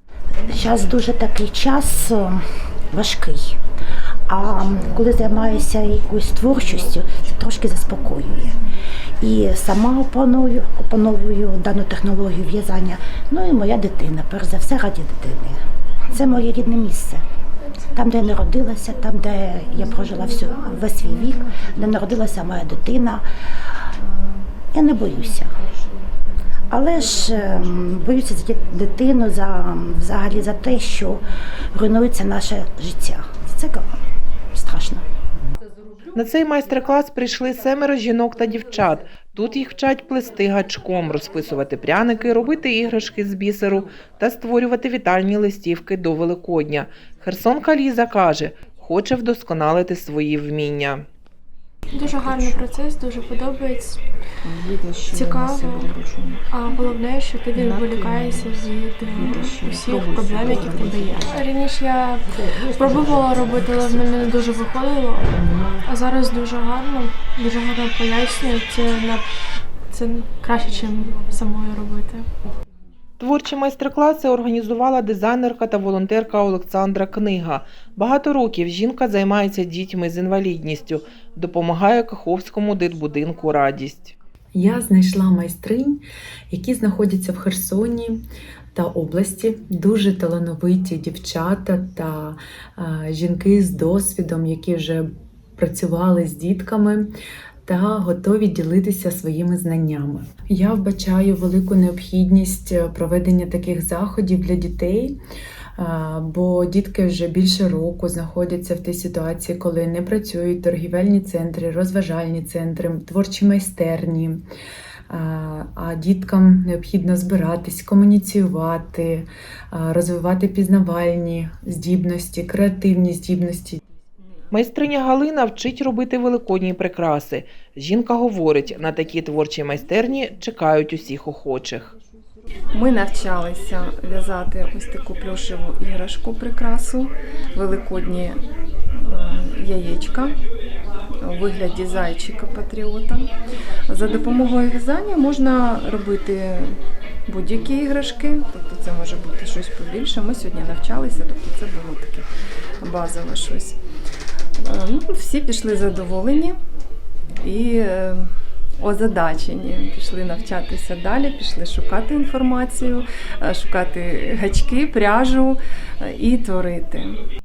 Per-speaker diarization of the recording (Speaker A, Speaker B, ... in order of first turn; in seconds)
Speaker A: 0.5-3.6, 4.3-8.6, 9.2-17.2, 17.9-23.2, 24.7-25.6, 26.7-33.9, 34.5-35.0
Speaker B: 23.9-24.5, 25.1-26.1, 27.2-27.7, 52.0-52.6, 54.4-56.4, 57.5-61.4, 132.7-138.4, 138.9-140.4, 141.2-143.3, 143.9-152.3, 152.8-153.8, 154.6-156.6, 157.4-167.2
Speaker C: 36.1-51.0, 73.2-84.2, 124.5-131.9
Speaker D: 51.9-54.0, 55.1-55.9, 56.5-69.3, 69.9-72.3
Speaker E: 84.5-88.2, 88.7-97.1, 97.7-105.2, 105.8-114.4, 115.1-123.8